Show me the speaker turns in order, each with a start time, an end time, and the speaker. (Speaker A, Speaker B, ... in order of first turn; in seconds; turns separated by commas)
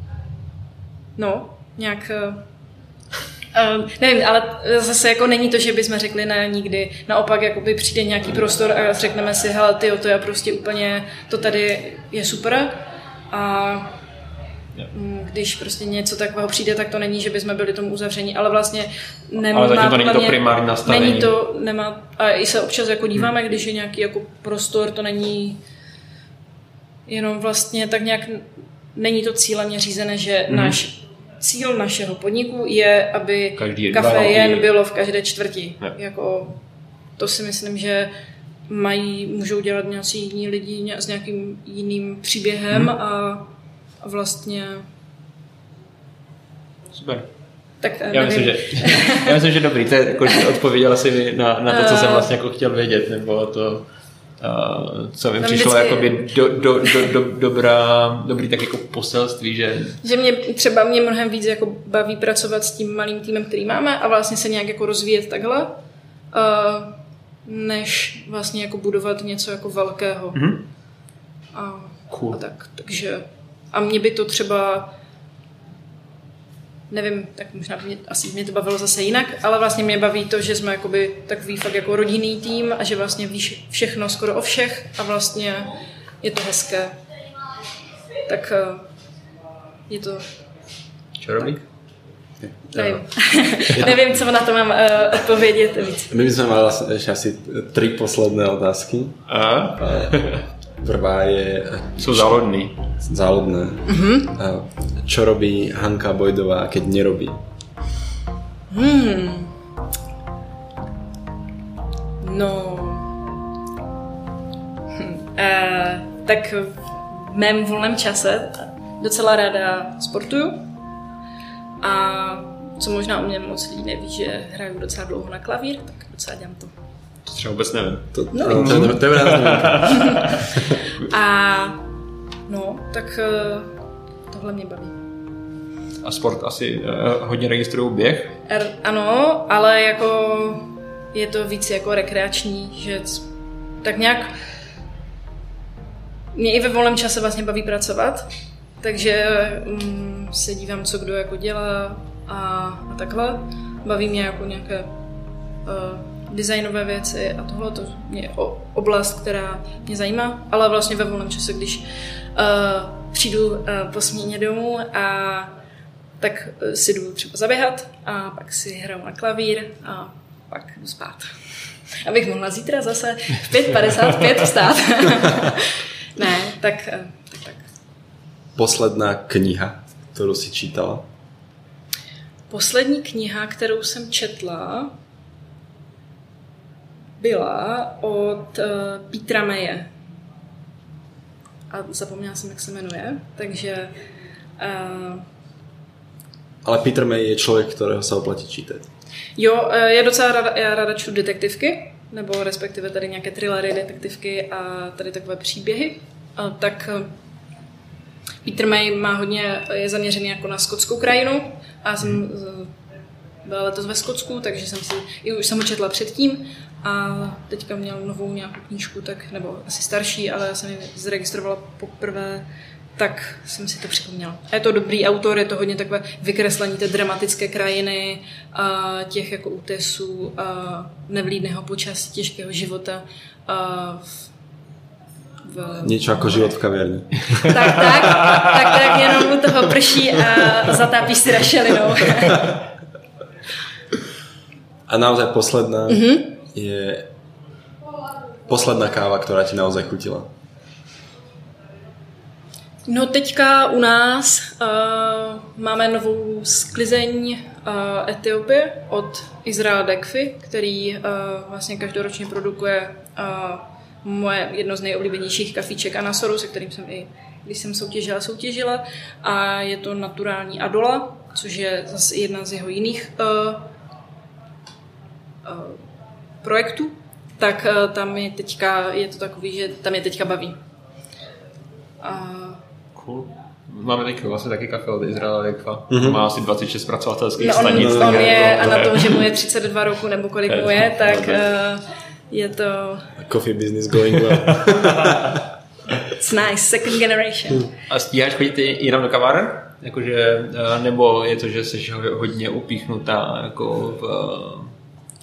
Speaker A: 1.1-2.4, Speaker A: 3.5-14.0, Speaker A: 14.9-25.6, Speaker B: 19.5-21.3, Speaker A: 27.1-36.6, Speaker B: 30.5-30.8, Speaker B: 33.6-34.7, Speaker A: 37.2-38.1, Speaker A: 38.7-43.5, Speaker A: 44.0-44.9, Speaker B: 46.9-47.3, Speaker A: 47.8-49.4, Speaker B: 48.1-53.9, Speaker A: 51.7-52.3, Speaker B: 54.4-60.0, Speaker A: 55.4-56.3, Speaker A: 60.0-65.8, Speaker A: 66.3-70.5, Speaker B: 70.3-70.6, Speaker A: 71.5-74.9, Speaker B: 72.1-72.4, Speaker A: 76.9-87.0, Speaker A: 88.3-88.9, Speaker A: 89.9-90.3, Speaker B: 91.2-91.6, Speaker C: 92.4-93.0, Speaker A: 92.8-96.1, Speaker C: 96.1-99.2, Speaker B: 99.3-100.4, Speaker C: 99.8-100.1, Speaker C: 100.8-102.4, Speaker B: 102.0-102.8, Speaker C: 103.0-107.4, Speaker A: 103.9-104.3, Speaker A: 108.7-109.5, Speaker A: 112.2-113.2, Speaker A: 114.9-120.6, Speaker A: 121.8-126.7, Speaker B: 127.2-130.5, Speaker C: 128.1-130.2, Speaker A: 128.3-128.9, Speaker A: 129.9-130.3, Speaker A: 131.0-131.8, Speaker A: 132.5-133.7, Speaker A: 134.3-134.9, Speaker B: 136.0-138.4, Speaker A: 138.5-143.3, Speaker A: 143.8-144.3, Speaker A: 146.3-148.3, Speaker A: 148.8-154.9, Speaker A: 155.6-165.5, Speaker A: 166.2-171.3, Speaker A: 172.0-177.6, Speaker C: 178.6-181.0, Speaker A: 182.5-184.9, Speaker A: 187.2-189.9, Speaker A: 191.7-193.9, Speaker A: 194.6-195.2, Speaker C: 196.6-198.8, Speaker A: 199.4-207.1, Speaker A: 208.4-212.7, Speaker A: 213.4-222.4, Speaker A: 223.0-234.3, Speaker A: 235.4-236.0, Speaker C: 235.8-237.8, Speaker A: 237.4-242.6, Speaker C: 244.9-247.1, Speaker A: 245.9-246.3, Speaker C: 248.5-250.3, Speaker A: 252.8-273.7, Speaker A: 275.4-275.8, Speaker A: 276.4-280.6, Speaker A: 282.0-282.6, Speaker B: 282.9-289.2, Speaker C: 285.9-286.2, Speaker A: 287.4-293.1, Speaker C: 287.6-288.5, Speaker B: 290.5-291.4, Speaker C: 293.2-295.4, Speaker B: 294.2-295.2, Speaker A: 296.1-297.7, Speaker B: 297.9-304.7